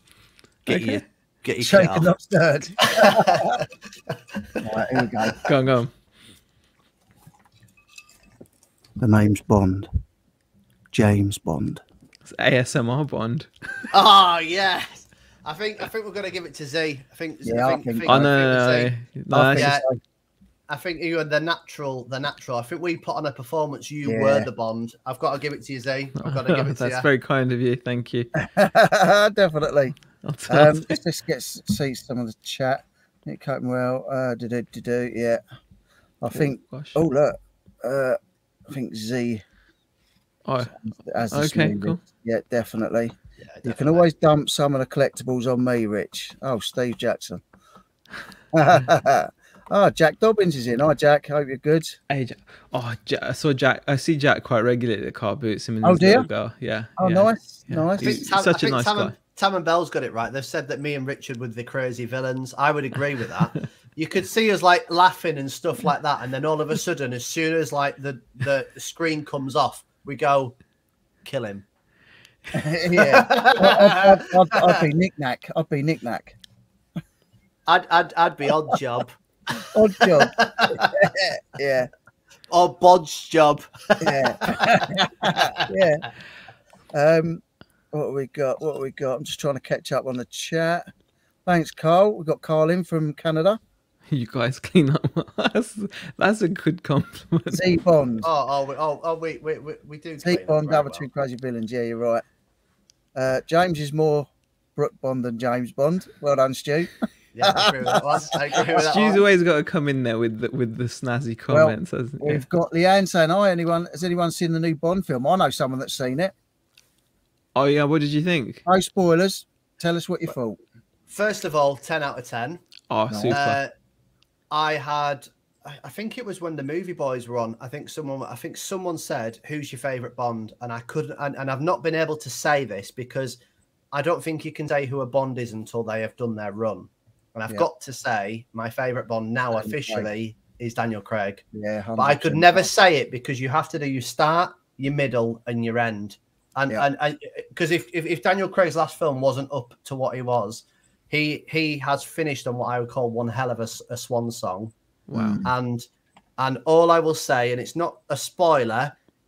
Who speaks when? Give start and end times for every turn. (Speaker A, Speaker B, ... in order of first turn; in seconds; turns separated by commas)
Speaker A: 0.7-2.1, Speaker B: 0.7-1.0, Speaker C: 1.6-3.6, Speaker A: 2.8-3.6, Speaker C: 4.6-5.4, Speaker B: 5.4-5.9, Speaker C: 9.0-9.9, Speaker C: 10.9-11.8, Speaker B: 12.2-13.9, Speaker A: 13.9-18.9, Speaker C: 17.4-18.3, Speaker B: 18.1-19.7, Speaker C: 19.3-20.0, Speaker A: 19.5-19.9, Speaker A: 20.7-27.1, Speaker C: 24.0-24.5, Speaker B: 26.2-28.3, Speaker C: 28.4-29.9, Speaker B: 30.2-31.0, Speaker C: 30.5-35.4, Speaker C: 36.2-39.4, Speaker B: 36.6-37.0, Speaker B: 40.5-40.7, Speaker C: 40.7-47.4, Speaker B: 41.3-42.0, Speaker A: 43.4-44.0, Speaker C: 48.5-52.0, Speaker B: 52.1-59.1, Speaker C: 55.8-56.3, Speaker C: 57.0-58.2, Speaker A: 58.0-70.5, Speaker A: 71.2-71.6, Speaker C: 72.5-76.3, Speaker A: 72.9-74.8, Speaker A: 77.7-81.0, Speaker C: 79.7-81.9, Speaker A: 82.5-85.7, Speaker C: 84.0-86.0, Speaker C: 86.9-90.9, Speaker C: 91.5-93.6, Speaker B: 94.1-97.6, Speaker C: 97.5-98.3, Speaker A: 98.2-101.0, Speaker C: 100.2-102.2, Speaker C: 103.1-106.9, Speaker A: 107.3-109.2, Speaker C: 107.4-108.8, Speaker B: 108.8-112.4, Speaker C: 111.5-116.3, Speaker B: 117.5-118.6, Speaker C: 118.7-120.6, Speaker A: 121.1-122.6, Speaker B: 122.9-123.6, Speaker C: 123.1-123.3, Speaker A: 123.3-123.7, Speaker A: 124.5-133.4, Speaker A: 133.9-141.4, Speaker C: 139.6-140.1, Speaker C: 141.5-142.7, Speaker A: 142.0-154.7, Speaker B: 155.1-155.5, Speaker C: 155.1-155.5, Speaker A: 155.4-155.8, Speaker A: 156.4-158.9